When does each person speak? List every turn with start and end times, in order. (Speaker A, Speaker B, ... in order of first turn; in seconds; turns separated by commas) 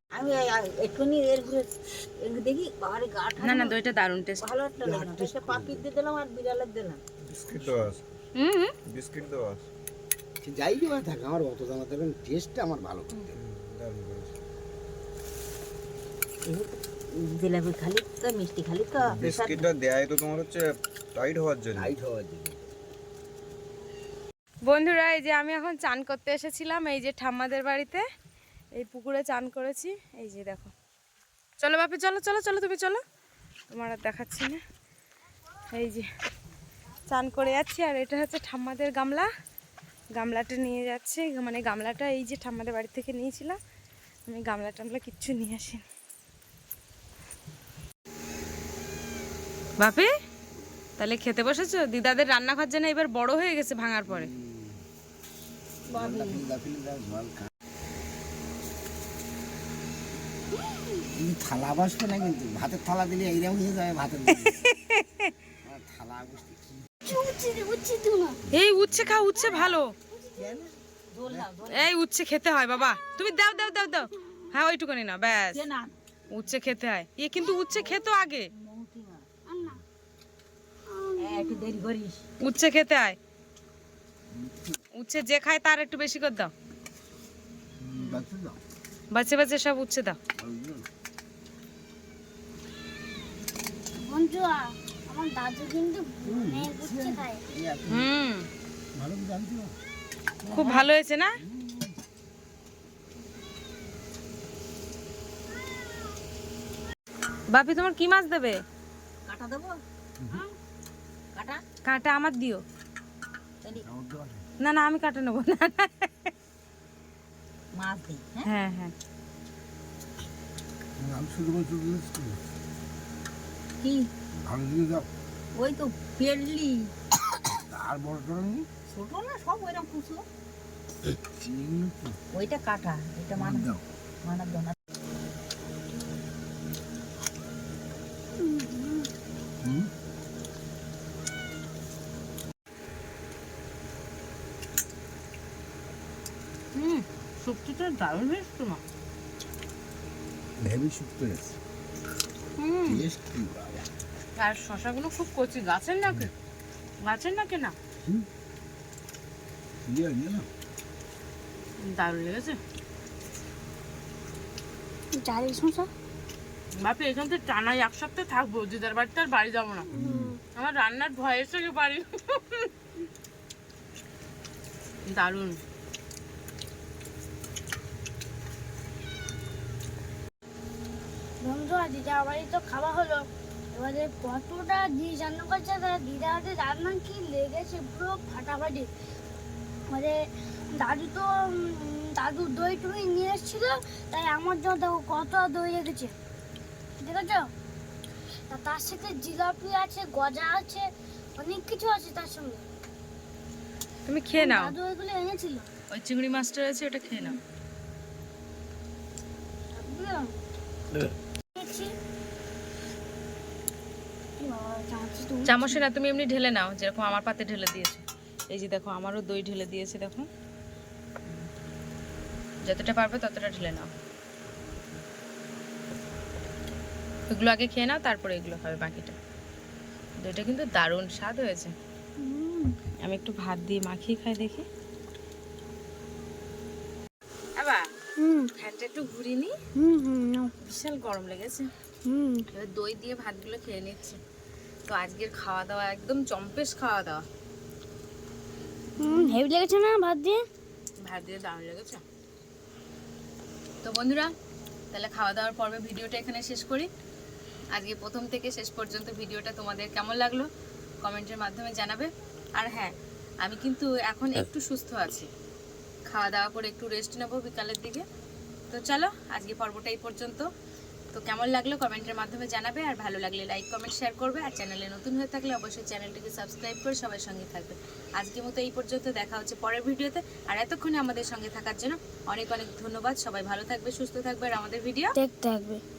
Speaker A: 0.1-3.8, Speaker B: 3.4-4.5, Speaker A: 4.4-7.0, Speaker C: 4.8-5.9, Speaker D: 7.3-8.0, Speaker C: 7.5-8.0, Speaker B: 8.4-8.7, Speaker D: 8.9-9.6, Speaker C: 10.4-13.6, Speaker A: 16.5-19.7, Speaker D: 19.1-20.6, Speaker D: 21.1-21.9, Speaker C: 21.8-22.7, Speaker B: 24.6-28.1, Speaker B: 28.7-30.7, Speaker B: 31.6-33.0, Speaker B: 33.7-34.6, Speaker B: 35.7-36.1, Speaker B: 37.1-39.3, Speaker B: 40.1-43.6, Speaker B: 44.2-45.8, Speaker B: 49.8-50.1, Speaker B: 51.0-54.3, Speaker C: 54.1-54.8, Speaker A: 55.9-56.5, Speaker C: 55.9-57.5, Speaker C: 61.1-64.7, Speaker B: 64.3-65.3, Speaker C: 65.6-66.8, Speaker E: 67.0-68.4, Speaker B: 68.5-69.9, Speaker A: 69.4-69.8, Speaker A: 70.3-71.9, Speaker C: 70.4-71.5, Speaker B: 71.7-75.6, Speaker A: 75.3-76.0, Speaker B: 76.3-78.5, Speaker A: 77.7-79.6, Speaker E: 81.0-81.7, Speaker A: 81.2-82.3, Speaker B: 82.4-83.2, Speaker C: 84.3-84.8, Speaker B: 85.0-86.5, Speaker C: 87.8-88.6, Speaker B: 89.1-90.2, Speaker C: 90.4-90.9, Speaker E: 94.0-97.4, Speaker C: 96.2-98.1, Speaker B: 97.9-98.5, Speaker C: 98.9-99.8, Speaker A: 100.4-100.9, Speaker B: 100.5-101.4, Speaker C: 101.5-101.9, Speaker B: 107.5-108.6, Speaker A: 109.2-110.5, Speaker C: 110.2-110.5, Speaker A: 111.3-111.6, Speaker B: 111.8-112.6, Speaker C: 113.7-114.5, Speaker B: 114.6-116.3, Speaker A: 117.7-118.5, Speaker B: 118.4-118.9, Speaker C: 121.0-122.4, Speaker A: 123.8-124.1, Speaker C: 124.4-125.1, Speaker A: 125.5-126.9, Speaker C: 127.6-128.7, Speaker A: 128.9-130.2, Speaker C: 131.2-132.2, Speaker A: 132.3-134.7, Speaker C: 133.4-133.8, Speaker E: 138.7-139.0, Speaker C: 139.6-139.9, Speaker B: 146.8-148.8, Speaker C: 150.6-151.6, Speaker B: 152.6-153.0, Speaker C: 152.8-153.9, Speaker B: 154.4-156.3, Speaker B: 157.0-157.8, Speaker C: 158.0-158.3, Speaker C: 159.8-160.5, Speaker B: 161.8-162.6, Speaker E: 165.1-165.9, Speaker B: 166.8-169.9, Speaker C: 169.9-170.3, Speaker E: 169.9-170.3, Speaker B: 170.5-172.7, Speaker B: 175.1-175.6, Speaker E: 181.4-188.9, Speaker E: 189.9-196.1, Speaker E: 197.0-197.5, Speaker E: 198.5-202.6, Speaker B: 204.1-204.8, Speaker E: 204.3-205.7, Speaker B: 205.9-207.4, Speaker E: 209.8-210.3, Speaker E: 211.6-211.9, Speaker E: 214.4-215.8, Speaker B: 215.4-220.3, Speaker B: 222.6-223.9, Speaker B: 227.3-229.2, Speaker B: 230.2-231.8, Speaker E: 232.2-232.8, Speaker B: 233.0-234.7, Speaker B: 237.6-237.9, Speaker E: 238.2-238.5, Speaker B: 238.4-239.6, Speaker E: 239.8-240.5, Speaker B: 240.6-241.7, Speaker E: 242.0-242.4, Speaker B: 242.5-244.2, Speaker B: 244.8-247.2, Speaker E: 249.0-250.4, Speaker B: 249.0-249.4, Speaker B: 251.0-252.0, Speaker B: 253.8-254.3, Speaker B: 254.9-256.9, Speaker B: 257.7-260.5, Speaker B: 261.0-265.3, Speaker B: 266.1-268.0, Speaker B: 268.7-270.5, Speaker B: 271.1-285.2, Speaker E: 285.1-285.8